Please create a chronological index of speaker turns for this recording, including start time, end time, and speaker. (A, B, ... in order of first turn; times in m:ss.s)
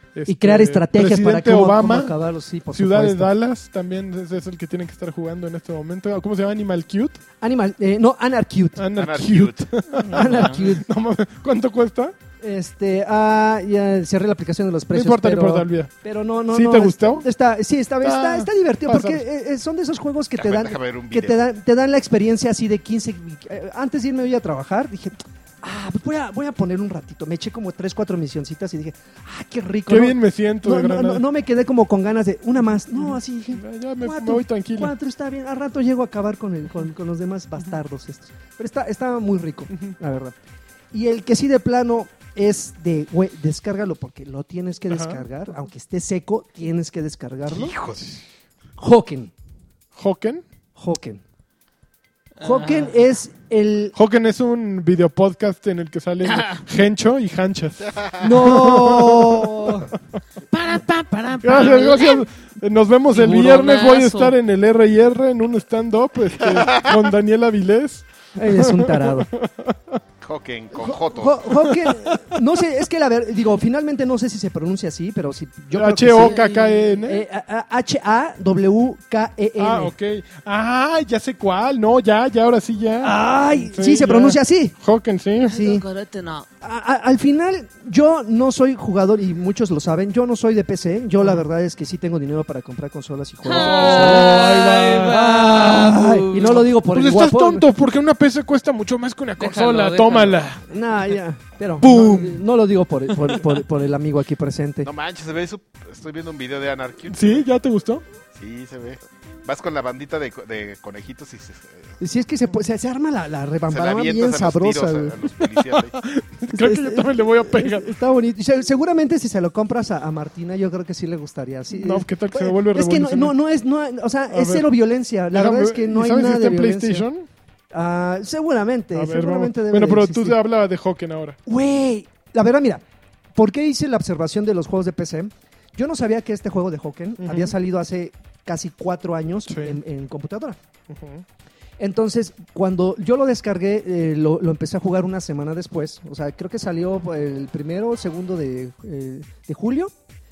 0:00.1-0:02.1 A
0:00.3-0:03.3 B
0:02.7-0:07.2 A
0:07.4-0:08.9 B
0:08.8-0:12.2 A
0:08.9-0:09.7 C
0:10.0-0:10.7 D
0:10.0-0:10.9 B
0:12.4-0:40.4 B
0:14.9-0:15.9 A
0:16.5-0:17.2 A
0:18.0-0:19.2 A
0:20.4-0:21.4 C
0:29.9-0:31.2 A
0:33.0-0:34.9 A
0:40.9-0:47.8 B
0:44.9-0:45.2 A
0:47.5-0:48.0 C
0:48.8-0:49.3 B
0:49.9-0:50.4 A
0:50.8-0:51.2 B
0:52.4-0:53.0 D
0:52.4-0:54.0 B
0:54.0-0:59.8 A
0:56.3-0:56.6 D
0:57.9-0:58.2 C
0:58.2-0:59.9 B
1:00.5-1:02.2 D
1:01.4-1:10.0 A
1:03.1-1:04.4 D
1:06.4-1:07.0 C
1:08.4-1:09.3 B
1:10.2-1:11.7 C
1:10.7-1:19.9 B
1:11.5-1:12.3 A
1:15.7-1:17.2 A
1:19.6-1:25.6 A
1:23.0-1:24.8 B
1:25.4-1:26.5 D
1:25.5-1:25.8 B
1:26.6-1:37.7 B
1:33.4-1:36.6 D
1:33.5-1:35.2 A
1:36.4-1:40.6 A
1:39.4-1:40.5 D
1:40.7-1:44.9 B
1:41.8-1:42.4 A
1:44.8-1:47.5 C
1:47.1-1:48.0 A
1:48.4-1:52.0 C
1:52.0-1:55.2 B
1:53.7-1:56.0 C
1:55.6-1:57.9 A
1:56.5-2:07.1 B
2:01.7-2:03.3 A
2:04.3-2:04.7 A
2:05.3-2:07.3 A
2:07.7-2:10.4 B
2:09.0-2:11.4 A
2:11.5-2:12.8 B
2:13.4-2:20.6 B
2:17.2-2:17.6 A
2:19.5-2:19.8 A
2:20.9-2:21.2 A
2:21.8-2:29.9 B